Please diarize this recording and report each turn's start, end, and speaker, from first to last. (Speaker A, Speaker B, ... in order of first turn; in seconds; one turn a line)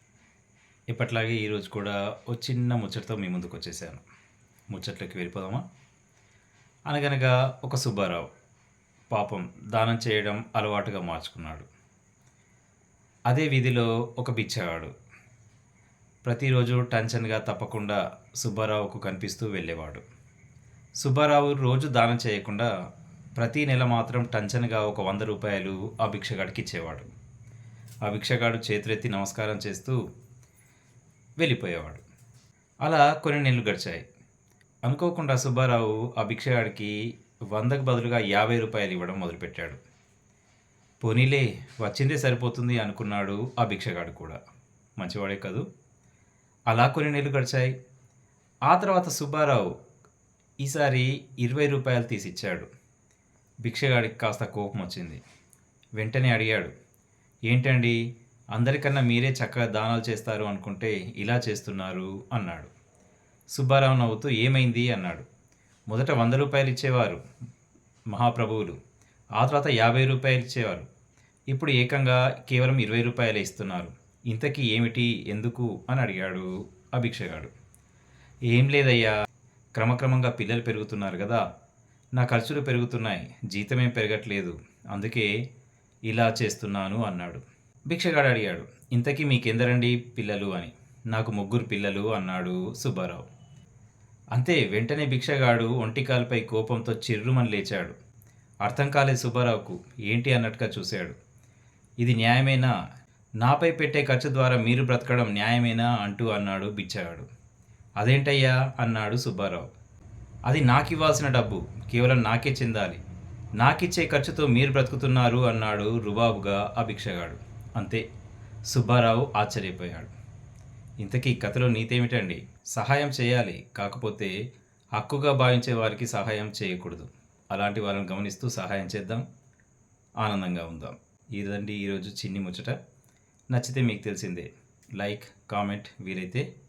Speaker A: 0.9-4.0
Speaker A: 4.7-5.6
Speaker A: 6.9-8.3
Speaker A: 9.1-11.7
Speaker A: 13.3-14.9
Speaker A: 16.2-20.0
Speaker A: 21.0-22.7
Speaker A: 23.4-27.1
Speaker A: 28.0-30.0
Speaker A: 31.4-32.0
Speaker A: 32.8-34.1
Speaker A: 34.8-37.0
Speaker A: 37.5-39.8
Speaker A: 41.0-44.4
Speaker A: 45.0-45.6
Speaker A: 46.7-47.7
Speaker A: 48.7-49.7
Speaker A: 50.6-52.7
Speaker A: 53.6-55.2
Speaker A: 56.0-56.7
Speaker A: 57.5-58.0
Speaker A: 58.5-62.7
Speaker A: 63.5-65.3
Speaker A: 65.9-67.2
Speaker A: 68.1-68.8
Speaker A: 69.4-70.9
Speaker A: 71.5-77.5
Speaker A: 78.5-79.1
Speaker A: 79.8-81.4
Speaker A: 82.2-85.3
Speaker A: 86.1-93.2
Speaker A: 94.3-98.0
Speaker A: 98.6-101.2
Speaker A: 102.0-102.7
Speaker A: 103.4-107.3
Speaker A: 108.0-109.7
Speaker A: 110.5-113.0
Speaker A: 113.6-118.0
Speaker A: 118.7-120.1
Speaker A: 121.0-124.3
Speaker A: 125.0-129.2
Speaker A: 130.2-132.8
Speaker A: 133.5-136.4